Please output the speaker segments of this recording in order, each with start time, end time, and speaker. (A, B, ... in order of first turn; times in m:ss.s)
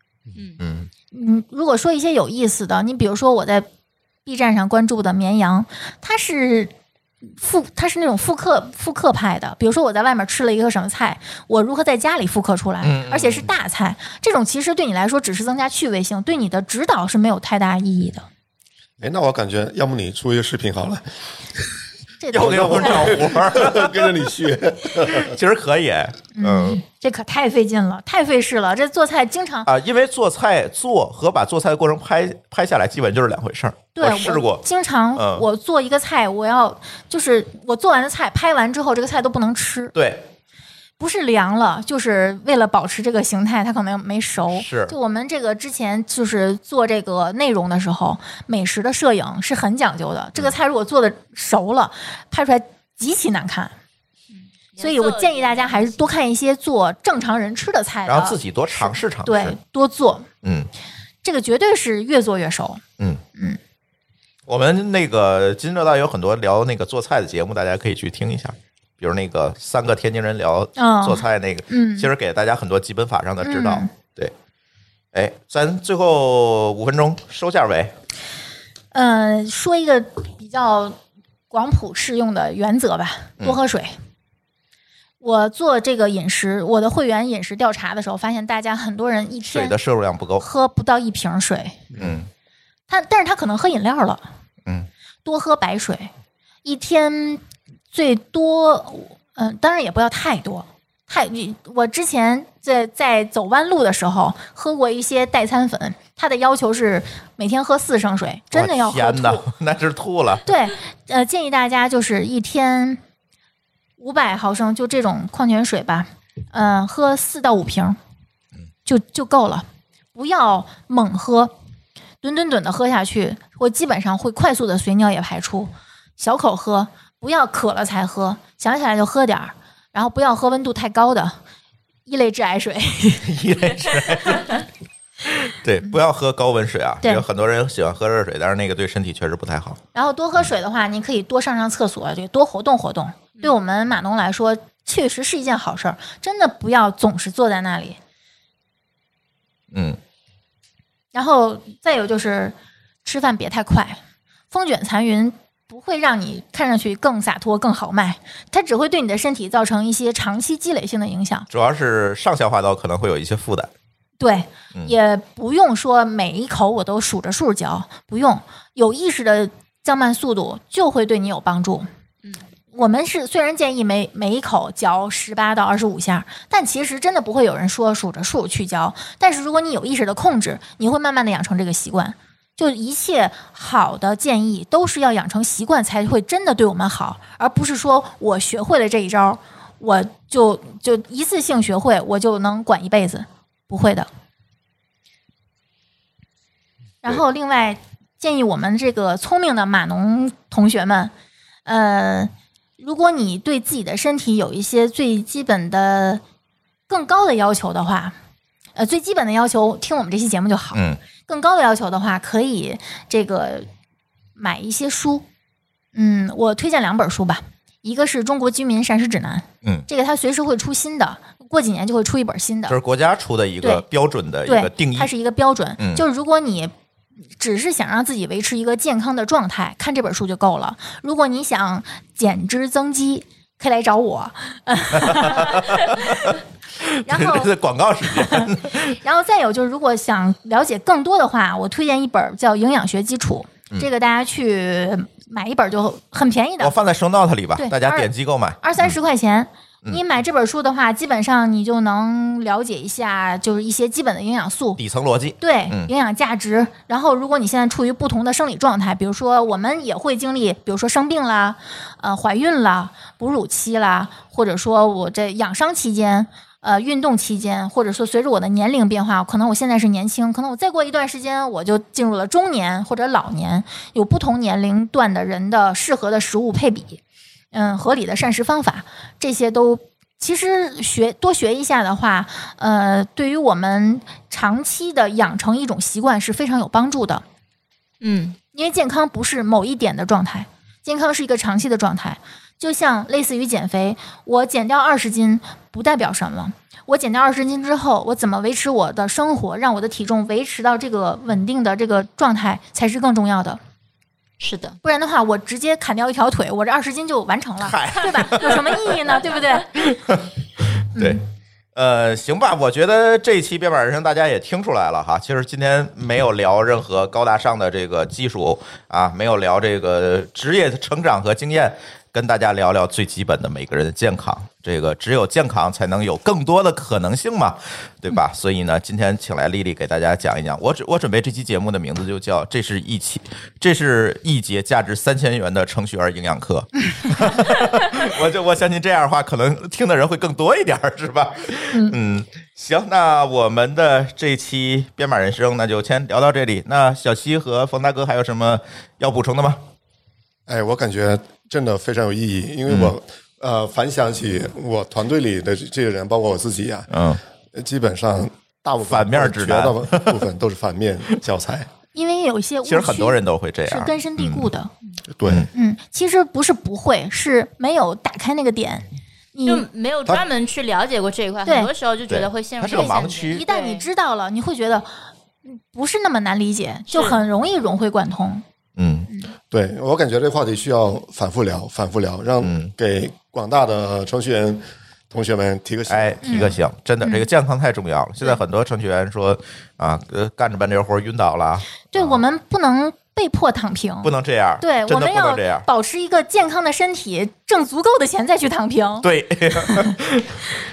0:00.6-0:00.9 A
0:01.1-0:03.7 B
0:04.2-0:06.7 B
0:07.4-0:18.3 B
0:12.8-0:13.5 A
0:19.0-0:21.0 C
0:22.2-0:23.1 B
0:22.3-0:24.2 A
0:22.3-0:25.3 C
0:24.9-0:26.8 A
0:26.4-0:29.7 B
0:29.6-0:34.6 A
0:34.0-0:39.9 B
0:35.1-0:35.4 A
0:39.9-0:40.2 A
0:41.0-0:53.7 B
0:44.5-0:45.0 A
0:54.3-0:56.0 D
0:54.8-1:00.3 B
0:58.0-0:59.6 A
1:00.4-1:00.7 A
1:01.2-1:02.8 B
1:04.5-1:14.3 A
1:10.8-1:12.1 B
1:13.4-1:13.9 B
1:15.1-1:17.9 A
1:18.9-1:21.0 B
1:21.5-1:23.9 B
1:25.2-1:29.8 B
1:29.4-1:30.5 A
1:30.4-1:31.8 B
1:32.0-1:32.3 A
1:32.9-1:34.2 B
1:35.2-1:36.1 B
1:36.6-1:49.4 B
1:48.5-1:50.5 A
1:50.4-1:53.0 B
1:54.0-1:58.0 B
1:58.8-2:01.5 B
2:02.2-2:11.4 B
2:12.0-2:14.4 B
2:13.2-2:14.6 A
2:15.2-2:19.8 A
2:19.9-2:28.0 B
2:29.7-2:30.0 A
2:31.1-2:34.0 B
2:34.5-2:41.5 B
2:41.5-2:43.7 A
2:44.2-2:51.9 B
2:52.7-3:14.1 B
3:17.0-3:21.1 B
3:21.6-3:26.2 B
3:26.9-3:28.1 B
3:28.7-3:33.7 B
3:30.7-3:31.0 A
3:34.4-3:35.2 B
3:35.9-3:42.8 B
3:42.7-3:45.1 A
3:44.4-3:46.7 B
3:45.8-3:46.0 A
3:47.4-3:56.4 B
3:54.9-3:59.0 A
3:57.0-3:57.5 B
3:58.0-4:06.7 B
4:06.6-4:09.0 A
4:07.6-4:08.1 B
4:08.6-4:14.8 B
4:14.8-4:15.9 A
4:15.4-4:37.0 B
4:37.5-4:47.2 B
4:48.0-4:48.4 D
4:48.5-5:03.6 B
5:04.4-5:04.8 D
5:04.8-5:09.9 B
5:07.6-5:09.1 A
5:09.7-5:11.2 A
5:11.0-5:11.2 B
5:11.7-5:49.6 A
5:50.5-5:56.9 C
5:52.6-5:52.9 A
5:56.9-5:57.2 A
5:57.5-6:01.7 C
5:58.8-6:00.2 A
6:01.9-6:04.7 B
6:02.6-6:04.5 A
6:05.1-6:05.5 C
6:05.5-6:09.6 B
6:09.4-6:13.9 D
6:11.4-6:11.7 B
6:12.1-6:13.4 A
6:12.7-6:14.9 B
6:15.4-6:18.4 B
6:16.9-6:17.2 D
6:18.8-6:19.1 A
6:19.5-6:26.5 C
6:22.4-6:22.7 A
6:25.9-6:32.2 A
6:26.2-6:27.2 B
6:31.9-6:39.9 B
6:34.0-6:35.7 A
6:39.0-6:40.4 A